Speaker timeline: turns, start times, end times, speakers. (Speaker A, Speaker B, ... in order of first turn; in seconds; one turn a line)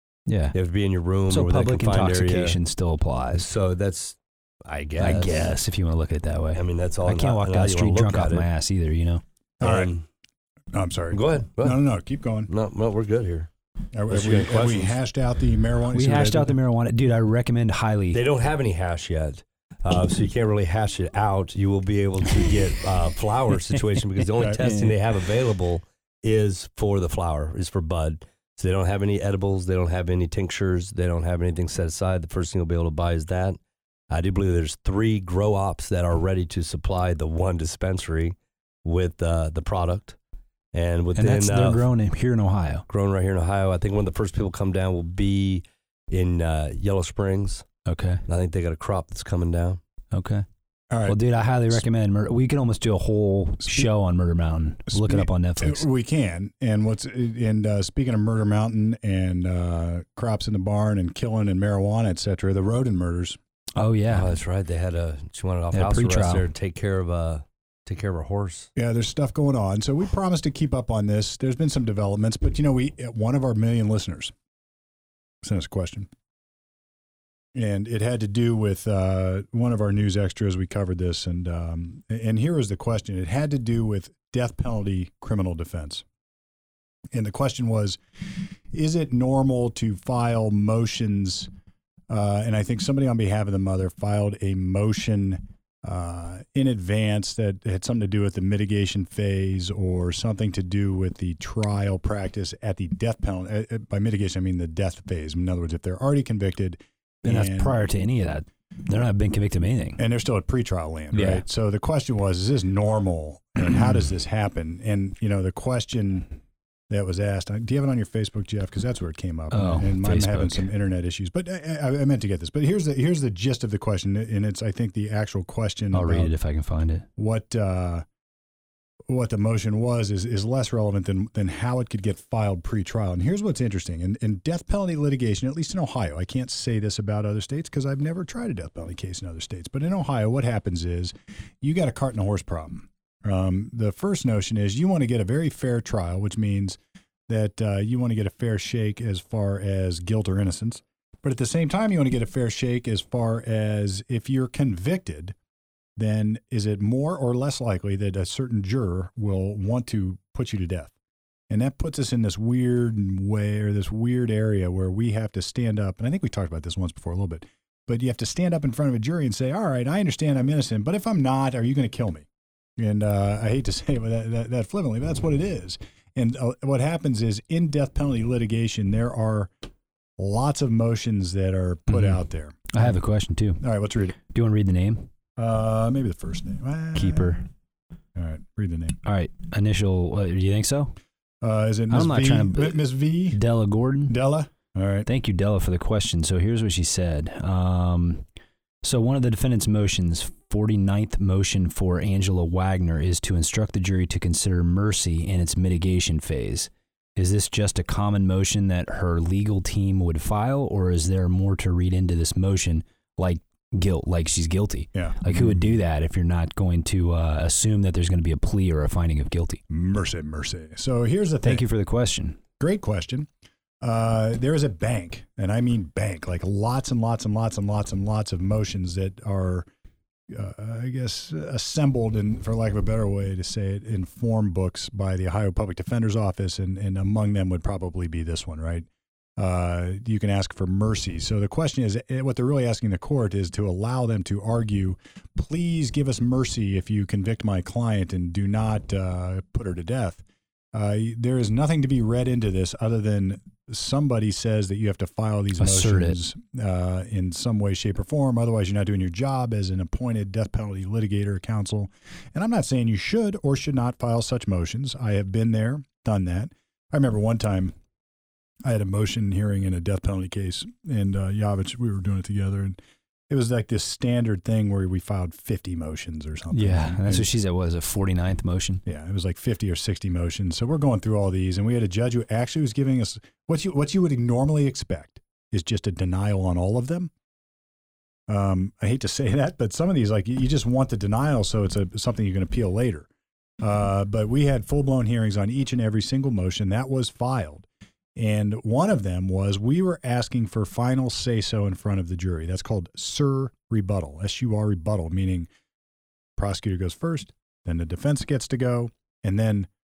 Speaker A: 0.3-0.6
Speaker B: 0.5-2.6
Speaker A: 1.3-3.5
Speaker B: 3.3-5.5
Speaker A: 5.0-9.2
Speaker B: 6.5-8.5
Speaker C: 9.6-9.9
Speaker B: 9.6-10.1
Speaker C: 10.7-12.5
Speaker B: 11.1-11.8
Speaker B: 12.5-13.5
Speaker C: 13.9-16.6
Speaker B: 14.1-15.0
Speaker A: 15.9-18.2
Speaker B: 18.1-33.6
Speaker A: 23.8-25.0
Speaker B: 34.1-40.2
Speaker B: 40.7-41.9
Speaker A: 41.1-42.9
Speaker B: 42.9-47.7
Speaker A: 47.9-48.2
Speaker B: 48.3-49.8
Speaker A: 50.1-50.5
Speaker C: 50.9-51.2
Speaker A: 51.0-55.9
Speaker C: 54.9-63.4
Speaker A: 63.8-64.4
Speaker B: 64.1-68.7
Speaker A: 65.7-66.5
Speaker C: 68.8-74.3
Speaker C: 75.4-76.1
Speaker C: 77.5-86.0
Speaker C: 87.1-88.0
Speaker C: 88.7-91.5
Speaker C: 92.1-107.8
Speaker A: 107.2-110.0
Speaker C: 110.0-116.3
Speaker A: 111.1-111.5
Speaker C: 116.9-126.3
Speaker A: 119.5-120.7
Speaker A: 125.9-127.1
Speaker C: 127.2-128.1
Speaker C: 129.1-146.8
Speaker C: 147.3-155.3
Speaker C: 156.0-160.9
Speaker C: 161.5-172.3
Speaker C: 172.8-179.5
Speaker C: 180.2-182.9
Speaker A: 181.9-183.6
Speaker C: 183.6-184.2
Speaker A: 184.2-185.1
Speaker C: 185.4-187.4
Speaker A: 186.9-187.5
Speaker C: 188.2-189.0
Speaker A: 189.0-190.9
Speaker C: 191.4-193.4
Speaker A: 191.9-194.2
Speaker C: 194.1-195.1
Speaker A: 195.1-198.2
Speaker A: 198.8-219.6
Speaker C: 214.9-215.7
Speaker C: 219.7-221.7
Speaker A: 221.4-222.4
Speaker C: 222.6-223.3
Speaker C: 223.8-229.7
Speaker C: 230.3-267.7
Speaker A: 255.6-256.2
Speaker C: 268.6-272.8
Speaker C: 273.3-277.3
Speaker A: 276.5-278.8
Speaker C: 278.9-287.1
Speaker C: 288.3-293.1
Speaker C: 293.6-305.5
Speaker C: 306.4-309.7